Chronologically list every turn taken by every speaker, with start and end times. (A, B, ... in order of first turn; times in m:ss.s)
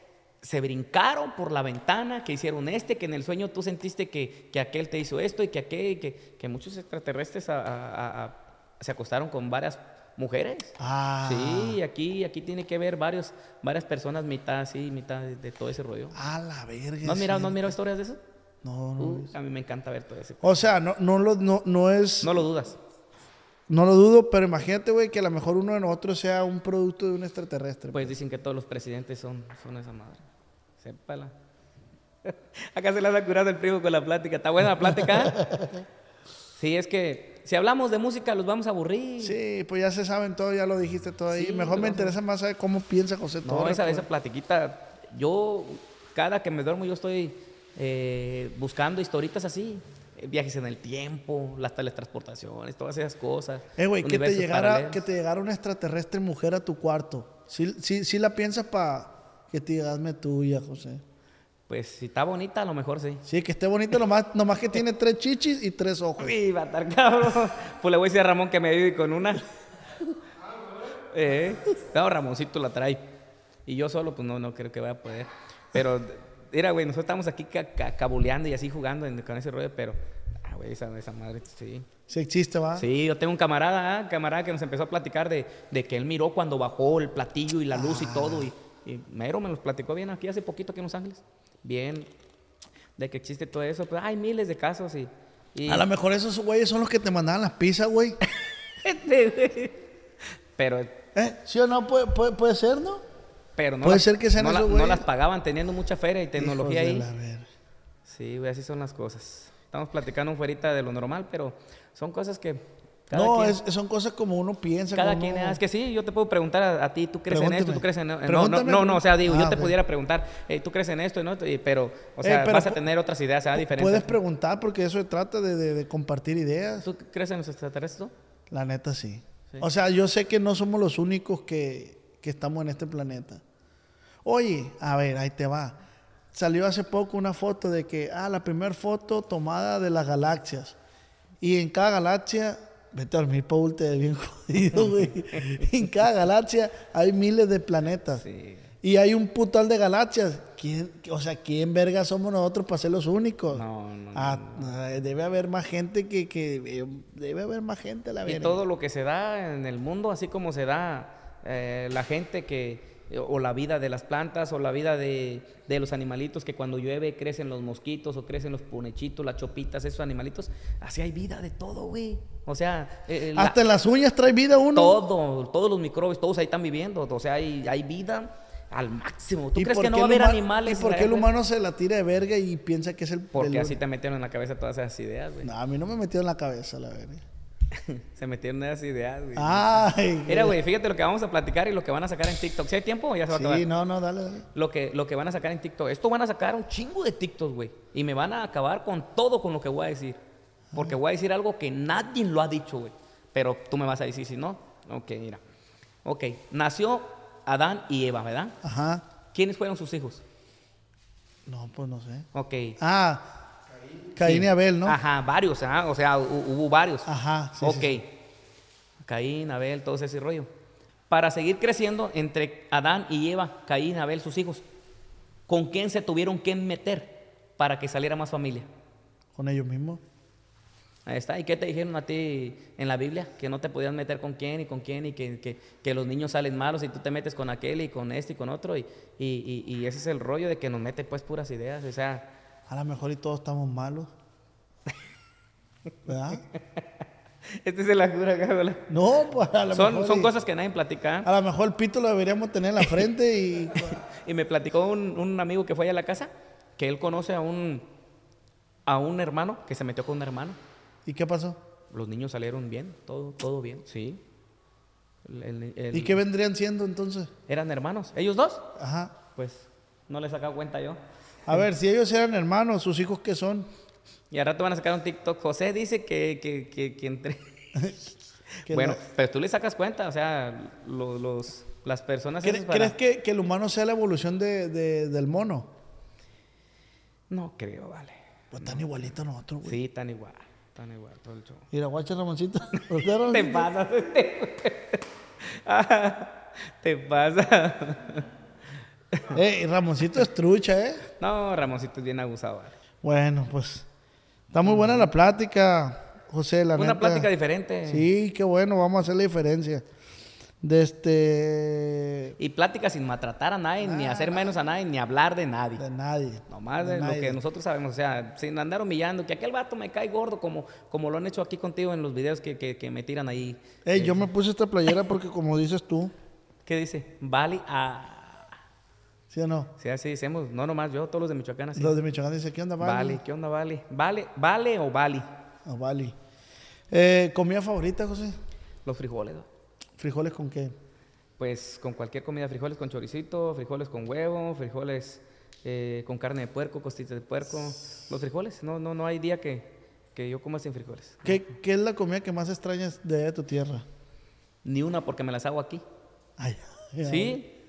0:00.4-0:16.1 A
0:10.8-0:11.8 B
0:16.1-0:17.7 B
0:17.0-0:18.2 A
0:18.6-0:19.3 B
0:19.0-0:20.6 A
0:20.4-0:22.4 B
0:22.2-0:22.8 A
0:23.7-0:28.1 B
0:27.9-0:30.2 A
0:30.8-0:31.3 A
0:32.2-0:35.5 A
0:36.5-0:39.4 A
0:39.2-0:44.0 B
0:41.3-0:42.2 A
0:43.4-0:55.0 A
0:53.8-1:01.0 B
1:01.7-1:03.2 A
1:03.2-1:06.4 B
1:06.2-1:09.4 A
1:11.1-1:13.1 A
1:13.6-1:21.9 A
1:22.1-1:22.8 B
1:22.7-1:32.1 A
1:27.7-1:28.5 B
1:33.0-1:35.9 A
1:35.7-1:38.2 B
1:38.8-1:39.8 A
1:40.6-1:41.0 A
1:41.1-1:43.0 B
1:43.6-1:47.1 A
1:43.8-1:45.0 B
1:46.4-1:47.5 B
1:48.0-1:53.6 A
1:53.1-1:55.6 B
1:54.9-2:04.2 A
1:57.3-1:59.8 B
2:02.2-2:02.8 B
2:03.5-2:06.9 B
2:06.8-2:08.1 A
2:08.5-2:13.4 B
2:14.2-2:15.8 B
2:16.3-2:20.8 B
2:21.4-2:28.2 B
2:24.9-2:25.7 A
2:28.1-2:28.7 A
2:28.8-2:38.6 B
2:33.5-2:34.7 A
2:38.2-2:53.6 A
2:53.3-2:55.0 B
2:54.7-3:01.3 A
2:59.6-3:03.8 B
3:03.3-3:05.5 A
3:05.4-3:07.2 B
3:07.7-3:13.6 A
3:09.4-3:10.6 B
3:13.3-3:14.4 B
3:14.5-3:20.2 A
3:20.7-3:25.4 A
3:26.0-3:28.6 A
3:28.6-3:29.0 B
3:29.3-3:30.2 A
3:31.4-3:32.3 B
3:32.3-3:32.8 A
3:32.8-3:33.3 B
3:34.1-3:35.0 B
3:34.2-3:37.1 A
3:37.0-3:38.0 B
3:37.6-3:38.1 A
3:39.0-3:40.5 A
3:41.1-3:44.6 A
3:45.5-3:48.7 A
3:49.4-3:50.0 B
3:51.0-4:02.3 A
4:02.7-4:04.1 B
4:06.0-4:06.4 B
4:06.5-4:06.8 A
4:07.5-4:08.9 A
4:08.9-4:10.3 B
4:09.7-4:11.3 A
4:11.2-4:14.0 B
4:12.8-4:13.0 A
4:13.7-4:17.9 A
4:18.8-4:20.6 A
4:21.0-4:21.6 B
4:21.9-4:24.2 A
4:25.2-4:26.2 A
4:25.9-4:27.3 B
4:27.5-4:28.7 A
4:28.8-4:29.1 B
4:29.3-4:31.6 A
4:31.5-4:33.7 B
4:34.3-4:37.4 A
4:37.7-4:38.0 B
4:38.6-4:39.0 B
4:38.7-4:43.0 A
4:42.4-4:45.7 B
4:47.3-4:48.8 A
4:48.5-4:49.8 B
4:49.6-4:51.6 A
4:51.7-4:53.7 B
4:53.2-4:58.2 A
4:59.3-5:01.0 B
5:01.2-5:02.8 A
5:03.0-5:03.8 B
5:04.5-5:07.3 B
5:04.6-5:05.1 A
5:06.7-5:08.1 A
5:07.9-5:09.8 B
5:10.6-5:12.3 B
5:12.4-5:15.8 A
5:13.8-5:14.6 B
5:15.8-5:17.4 B
5:16.5-5:24.3 A
5:23.8-5:26.1 B
5:26.6-5:28.5 A
5:29.3-5:29.7 B
5:29.8-5:32.0 A
5:31.8-5:33.2 B
5:32.8-5:35.3 A
5:35.6-5:36.1 B
5:36.9-5:38.4 B
5:38.8-5:39.5 A
5:40.0-5:40.7 B
5:41.4-5:51.4 A
5:51.2-5:53.8 B
5:54.6-5:55.8 A
5:56.4-5:57.4 B
5:57.0-5:57.5 A